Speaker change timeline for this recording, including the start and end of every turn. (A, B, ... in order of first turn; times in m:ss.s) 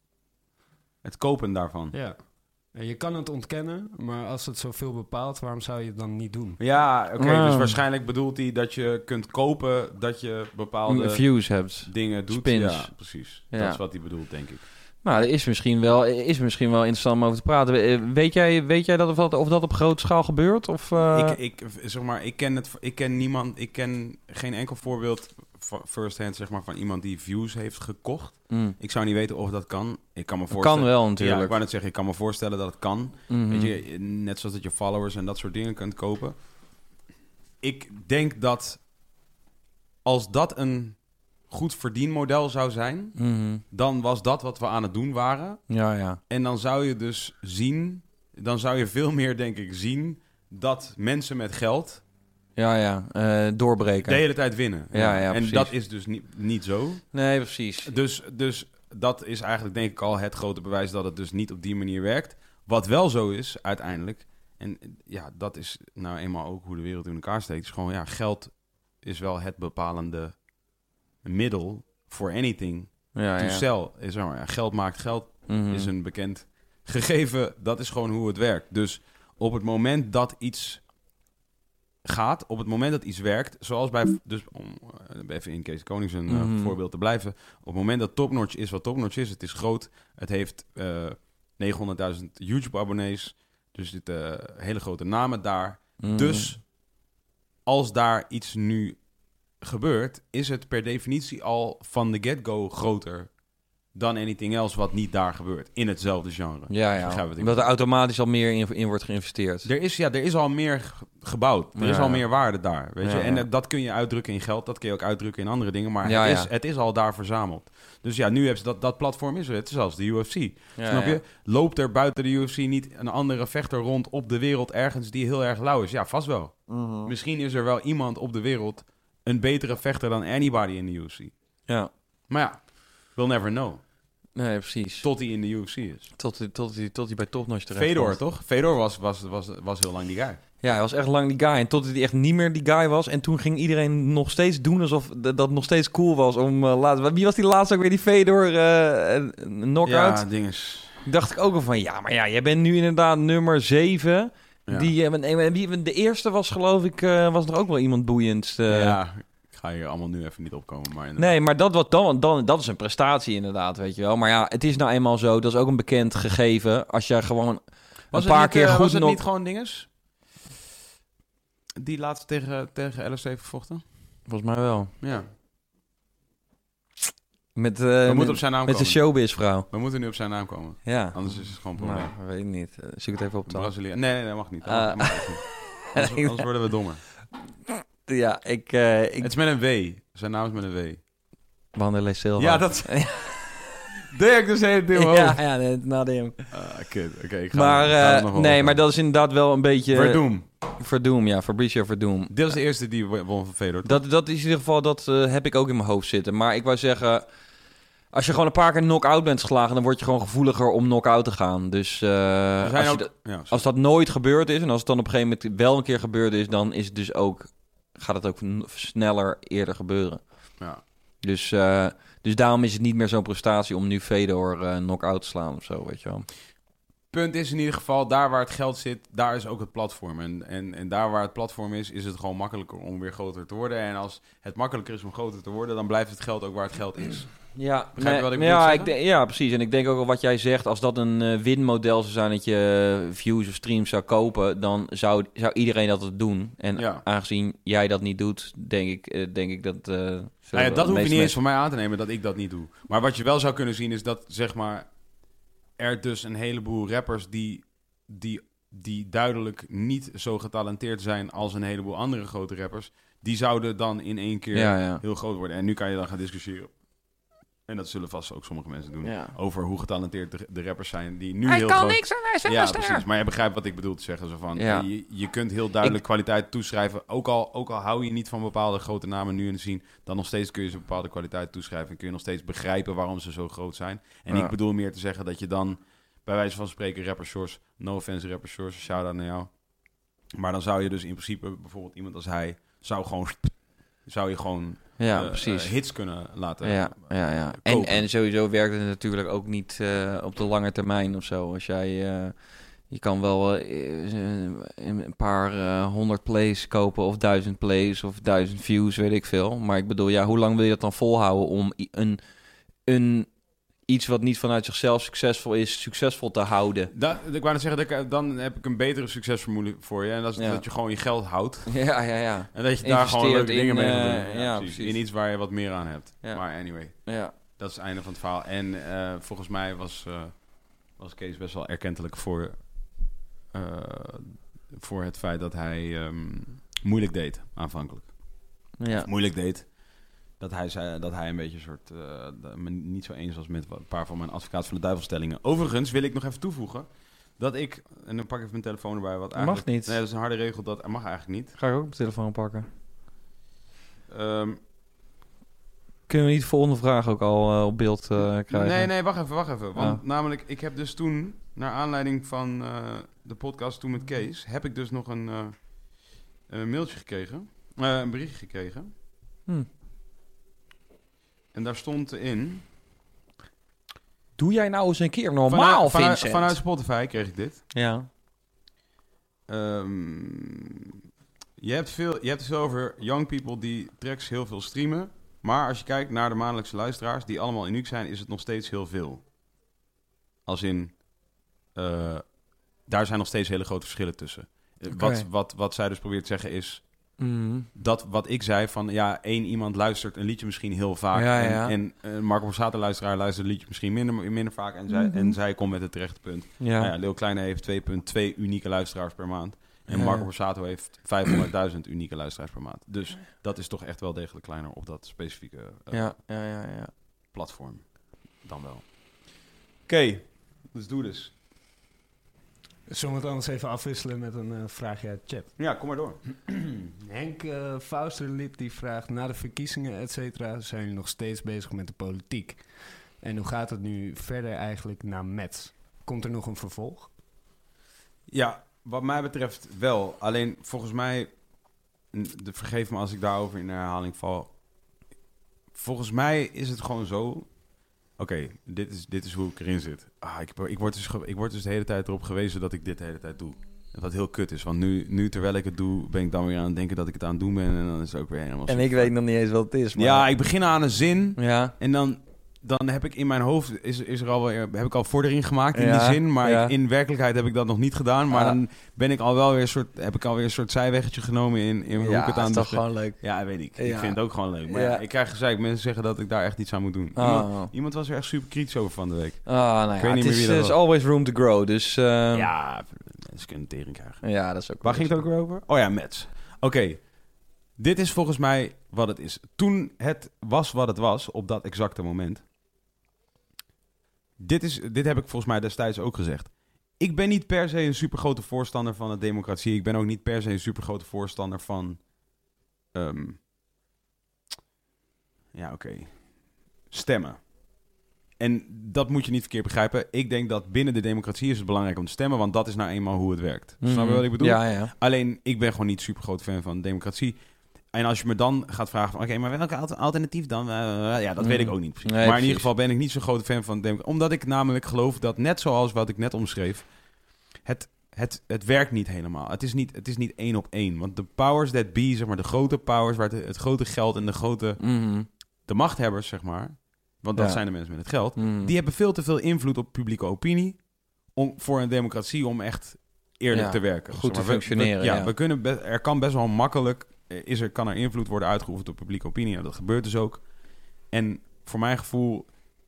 0:01.0-0:02.0 A
0:01.9-0:06.6 B
0:06.6-0:14.6 A
0:07.2-0:07.8 C
0:10.9-0:13.8 C
0:15.0-0:21.4 C
0:21.1-0:36.4 A
0:28.5-0:28.8 C
0:30.5-0:31.6 C
0:33.3-0:33.7 C
0:37.6-0:38.8 A
0:40.0-0:45.7 A
0:43.2-0:43.6 C
0:45.7-0:46.2 C
0:46.3-0:52.0 A
0:52.6-0:55.7 C
0:54.0-0:57.2 A
0:57.1-0:57.9 C
0:57.8-1:10.4 A
1:11.2-1:20.9 A
1:13.1-1:13.6 C
1:15.5-1:15.9 C
1:22.0-1:36.7 A
1:26.3-1:26.7 C
1:36.0-1:36.6 C
1:37.7-1:43.4 A
1:43.9-1:47.6 A
1:46.7-1:49.7 C
1:49.6-2:11.3 A
1:51.8-1:52.5 C
1:53.0-1:53.4 C
1:56.0-1:56.5 C
2:00.8-2:01.2 C
2:06.7-2:07.1 C
2:12.3-2:13.8 A
2:14.4-2:15.1 C
2:15.0-2:16.1 A
2:16.2-2:18.2 C
2:17.8-2:20.4 A
2:20.6-2:30.2 C
2:29.8-2:31.0 A
2:31.0-2:39.0 C
2:38.7-2:41.3 A
2:41.2-2:49.2 C
2:48.1-2:49.9 A
2:51.8-2:54.1 A
2:54.3-2:54.9 C
2:55.0-2:55.3 A
2:57.6-2:59.7 C
2:58.0-3:02.1 A
3:00.8-3:03.9 C
3:03.5-3:07.0 A
3:04.7-3:06.4 C
3:07.7-3:09.3 C
3:09.2-3:11.0 A
3:11.7-3:13.7 C
3:12.4-3:13.2 A
3:14.1-3:15.4 A
3:14.9-3:16.6 C
3:16.5-3:18.8 A
3:17.5-3:22.6 C
3:19.9-3:20.4 A
3:22.3-3:24.0 A
3:23.8-3:27.2 C
3:28.1-3:46.3 C
3:32.6-3:33.6 A
3:47.1-3:58.9 A
3:57.5-4:11.4 C
4:06.8-4:07.0 A
4:10.5-4:15.0 A
4:15.8-4:27.0 A
4:24.5-4:25.0 C
4:27.7-4:58.1 A
4:29.0-4:29.3 C
4:31.5-4:33.0 C
4:34.6-4:35.2 C
4:55.0-5:12.2 C
5:12.8-5:16.9 C
5:16.9-5:22.0 A
5:20.4-5:20.6 C
5:21.7-5:25.0 C
5:22.5-5:51.6 A
5:26.2-5:27.4 C
5:38.8-5:39.1 C
5:49.4-5:50.0 C
5:51.6-5:52.7 C
5:54.1-5:54.6 A
5:56.1-6:00.0 C
5:58.5-6:08.9 A
6:11.5-6:12.7 A
6:14.4-6:16.6 C
6:15.5-6:17.6 A
6:17.7-6:18.1 C
6:19.5-6:20.7 A
6:21.6-6:29.2 A
6:30.5-6:37.2 A
6:34.9-6:35.3 C
6:37.2-6:37.7 C
6:37.8-6:56.2 A
6:41.1-6:41.7 C
6:44.9-6:45.4 C
6:46.6-6:46.9 C
6:49.9-6:51.1 C
6:55.9-6:57.0 C
6:57.3-7:01.3 A
7:02.9-7:05.8 B
7:05.6-7:06.5 A
7:07.0-7:17.1 B
7:18.3-7:21.4 A
7:22.1-7:24.5 A
7:25.7-7:27.6 A
7:28.2-7:39.1 A
7:38.7-7:40.3 C
7:40.0-8:00.8 A
7:41.4-7:41.7 C
7:45.8-7:46.7 C
7:48.3-7:48.6 C
7:52.0-7:55.0 C
7:57.2-7:57.7 C
7:59.5-8:02.5 C
8:02.3-8:07.2 A
8:04.2-8:05.3 C
8:07.8-8:12.4 A
8:14.4-8:22.1 A
8:22.9-8:23.4 A
8:25.5-8:27.8 A
8:28.4-9:12.6 A
8:33.8-8:34.9 C
8:41.4-8:42.7 C
8:54.8-8:55.3 C
8:57.4-8:58.7 C
9:03.5-9:05.3 C